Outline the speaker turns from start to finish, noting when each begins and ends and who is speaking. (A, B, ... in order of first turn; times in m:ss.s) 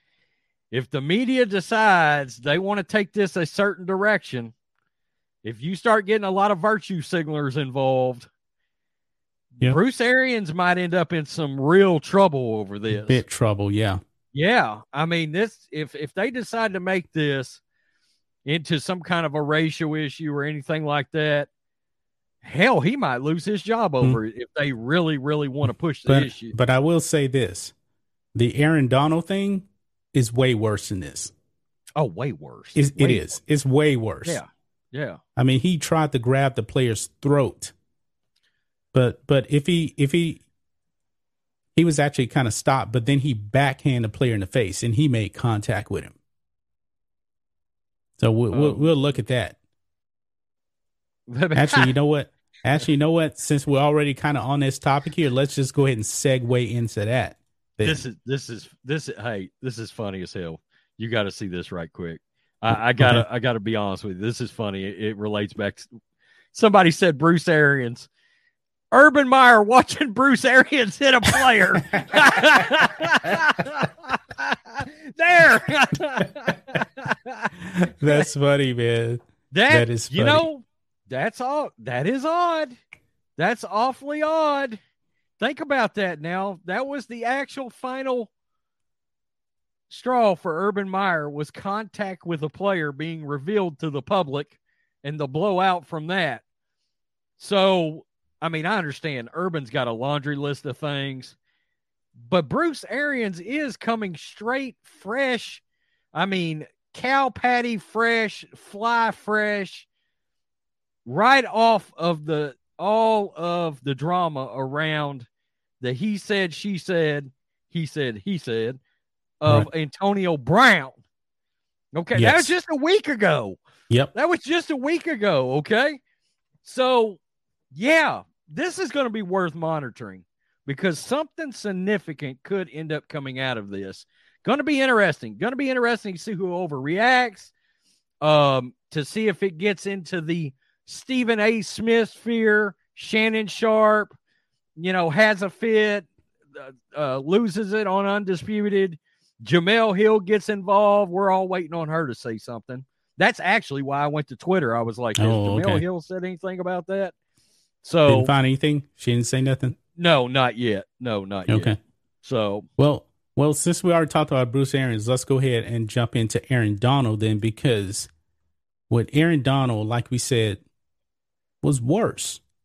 0:00.7-0:04.5 A
0:05.4-0:08.3 A
0:09.6-0:13.2 A
0:12.9-0:14.0 B
0:14.3-0:17.6 A
0:18.4-0:21.5 A
0:22.4-0:26.5 A
0:26.1-0:27.7 B
0:28.3-0:31.3 B
0:32.0-0:33.4 A
0:32.8-0:34.4 B
0:34.2-0:35.2 A
0:35.4-0:37.7 B
0:38.9-0:40.4 B
0:41.7-0:46.1 B
0:48.2-0:49.6 B
0:48.5-0:49.0 A
0:51.3-0:51.9 A
0:51.5-0:58.0 B
0:57.8-1:05.9 A
1:02.7-1:03.2 B
1:06.5-1:08.1 A
1:08.9-1:17.5 A
1:17.6-1:20.4 B
1:19.5-1:22.8 A
1:23.4-1:24.8 A
1:25.4-1:28.3 A
1:29.9-1:36.4 A
1:37.4-1:41.4 A
1:42.2-1:45.6 A
1:46.1-1:49.9 A
1:51.0-1:55.2 A
1:55.8-1:58.8 A
1:59.4-2:01.0 A
2:01.9-2:03.6 A
2:02.1-2:02.5 B
2:04.1-2:06.0 A
2:06.6-2:07.2 A
2:07.7-2:17.5 A
2:18.2-2:24.1 A
2:24.8-2:37.1 A
2:35.2-2:35.8 B
2:37.8-2:38.3 A
2:38.1-2:39.8 B
2:40.0-2:42.7 A
2:41.5-2:41.8 B
2:42.8-2:48.1 B
2:48.9-2:50.6 B
2:51.6-2:52.4 B